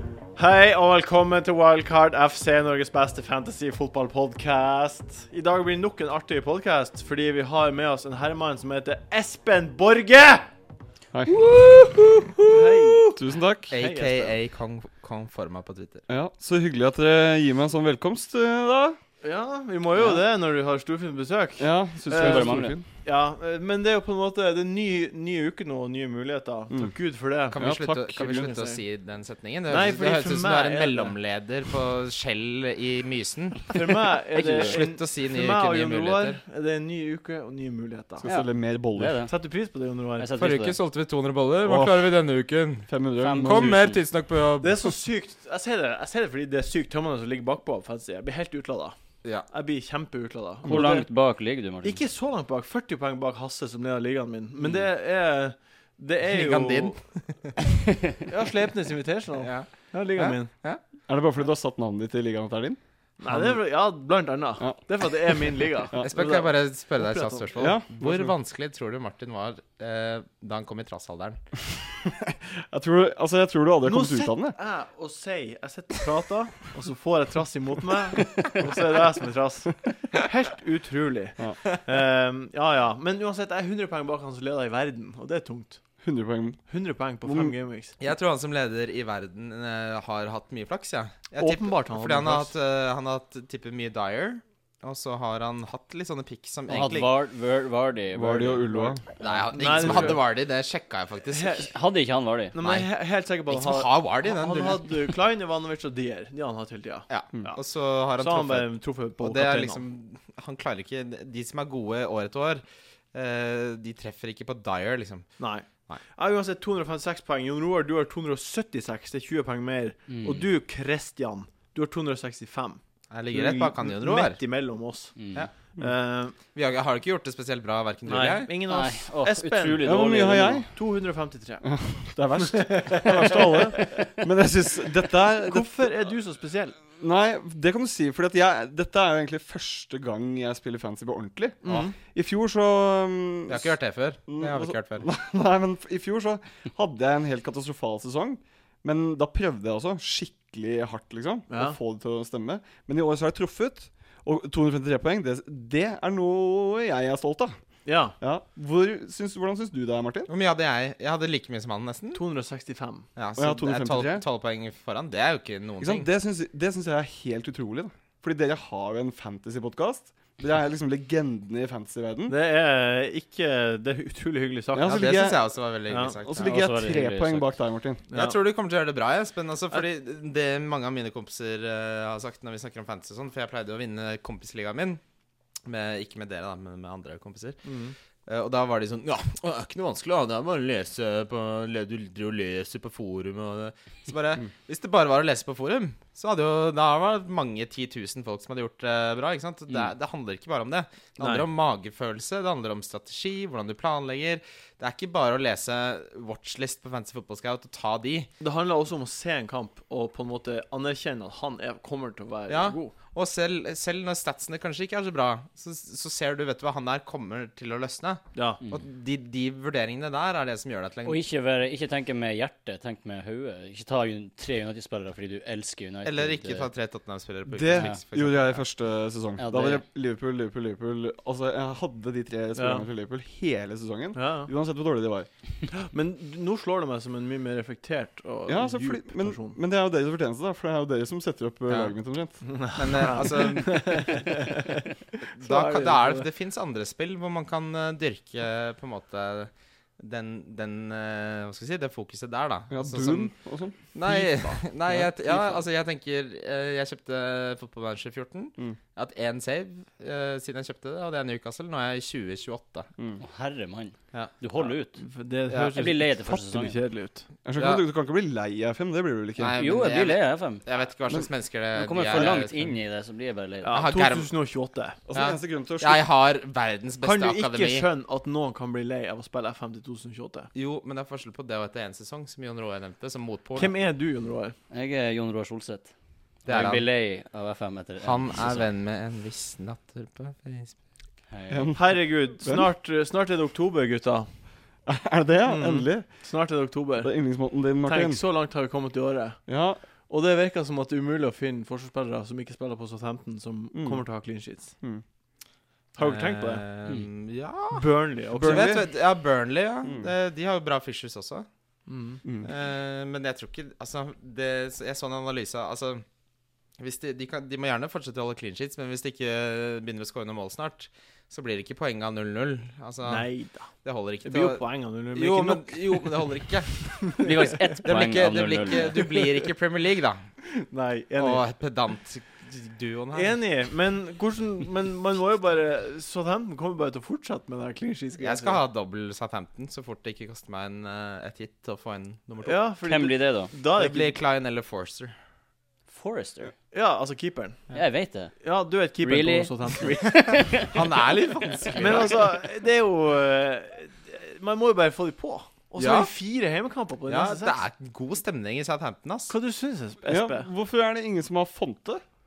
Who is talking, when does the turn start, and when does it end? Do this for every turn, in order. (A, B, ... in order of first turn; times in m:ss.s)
0:00.3-0:10.5 A
0:11.1-0:12.4 B
0:12.4-0:13.1 A
0:13.1-0:13.7 B
0:13.7-0:16.0 C
0:13.7-0:14.4 A
0:16.1-0:19.0 B
0:19.2-0:27.6 A
0:21.6-0:22.8 B
0:22.1-0:22.8 D
0:27.5-0:36.4 C
0:27.5-0:28.6 B
0:28.2-0:28.8 A
0:29.7-0:31.2 A
0:33.7-0:38.2 A
0:34.3-0:34.8 D
0:38.2-0:39.2 B
0:38.2-0:39.3 D
0:39.2-0:40.3 A
0:40.2-0:40.8 D
0:40.4-0:42.9 C
0:41.6-0:42.1 B
0:42.9-0:43.9 B
0:43.2-0:44.0 D
0:43.4-0:44.9 C
0:44.6-0:51.3 A
0:50.6-0:50.9 B
0:50.6-0:52.0 D
0:51.8-0:57.1 A
0:56.3-0:57.5 C
0:58.3-1:00.5 A
0:59.4-1:00.8 C
1:01.1-1:03.7 B
1:03.2-1:07.5 A
1:04.6-1:06.2 B
1:06.0-1:11.4 C
1:07.5-1:08.3 B
1:12.0-1:14.6 B
1:13.8-1:25.8 A
1:26.0-1:26.6 B
1:26.7-1:28.0 A
1:27.2-1:27.5 B
1:28.0-1:37.1 C
1:31.3-1:32.5 A
1:36.7-1:39.3 D
1:38.1-1:39.0 B
1:39.2-1:41.6 C
1:39.5-1:40.2 A
1:41.3-1:41.7 A
1:41.7-1:42.5 D
1:42.5-1:47.6 A
1:42.6-1:42.9 C
1:43.5-1:45.0 C
1:47.1-1:56.0 C
1:48.2-1:49.8 A
1:55.4-2:06.4 A
2:00.1-2:00.5 D
2:03.1-2:04.4 C
2:05.2-2:05.5 D
2:06.5-2:08.5 C
2:08.0-2:10.1 A
2:08.7-2:10.6 D
2:09.8-2:10.7 B
2:10.7-2:14.0 A
2:11.6-2:15.9 B
2:15.4-2:16.8 A
2:17.0-2:23.8 B
2:21.6-2:22.0 A
2:23.5-2:25.1 C
2:24.3-2:37.6 B
2:31.5-2:31.8 A
2:37.8-2:38.2 A
2:38.2-2:40.3 B
2:40.3-2:42.2 C
2:42.1-2:43.1 A
2:43.2-2:46.0 C
2:43.4-2:44.2 B
2:45.8-2:52.3 B
2:52.3-2:55.3 A
2:54.7-2:55.5 B
2:54.9-2:56.6 C
2:55.9-2:56.2 A
2:56.2-2:58.0 B
2:56.4-2:57.5 D
2:58.1-2:58.4 A
2:58.1-3:05.0 C
3:05.6-3:07.7 C
3:07.6-3:07.9 A
3:08.2-3:28.3 C
3:21.2-3:21.4 A
3:28.4-3:32.9 A
3:32.5-3:41.2 C
3:38.3-3:38.6 A
3:41.0-3:46.7 D
3:46.0-3:48.6 C
3:47.5-3:55.3 B
3:47.7-3:48.0 D
3:49.4-3:49.8 D
3:52.6-3:52.8 A
3:54.1-3:54.5 A
3:55.7-3:59.6 A
3:58.5-4:03.0 B
4:01.7-4:01.9 C
4:02.4-4:06.3 A
4:02.7-4:04.2 C
4:05.3-4:13.3 C
4:12.7-4:13.8 B
4:13.9-4:22.9 C
4:14.0-4:15.6 A
4:23.2-4:25.0 D
4:24.6-4:27.3 A
4:25.7-4:26.8 D
4:27.4-4:29.6 B
4:27.6-4:27.8 C
4:29.4-4:32.7 C
4:29.5-4:30.6 D
4:31.7-4:33.9 D
4:33.6-4:35.0 A
4:33.7-4:34.3 C
4:35.1-4:36.0 B
4:35.1-4:37.9 C
4:37.0-4:40.5 A
4:40.5-4:43.7 C
4:43.6-4:44.6 A
4:44.7-4:45.9 D
4:46.4-4:48.7 D
4:46.4-4:46.8 C
4:48.0-4:50.8 C
4:51.3-4:51.8 D
4:51.5-4:52.7 B
4:51.7-4:54.3 A
4:54.8-4:56.2 B
4:55.4-4:57.1 A
4:57.0-4:58.2 B
4:57.8-4:59.4 A
4:59.5-4:59.8 B
5:00.1-5:04.7 A
5:03.7-5:04.1 B
5:05.9-5:06.6 A
5:06.0-5:11.5 C
5:07.7-5:08.8 A
5:08.4-5:08.9 B
5:09.8-5:10.1 B
5:11.9-5:12.2 A
5:12.4-5:16.0 C
5:16.8-5:27.0 C
5:23.0-5:26.5 A
5:27.2-5:29.1 D
5:27.8-5:30.3 C
5:30.4-5:31.4 A
5:31.2-5:33.4 C
5:33.1-5:38.6 A
5:38.2-5:42.6 C
5:42.4-5:44.2 A
5:42.8-5:43.5 D
5:43.7-5:45.1 C
5:45.9-5:46.5 D
5:46.7-5:47.6 A
5:47.7-5:48.4 D
5:48.4-5:50.1 A
5:49.0-5:52.1 D
5:50.6-5:52.2 C
5:51.8-5:57.6 A
5:55.8-5:56.1 C
5:57.1-5:59.3 C
5:59.3-6:00.5 A
6:00.1-6:02.0 B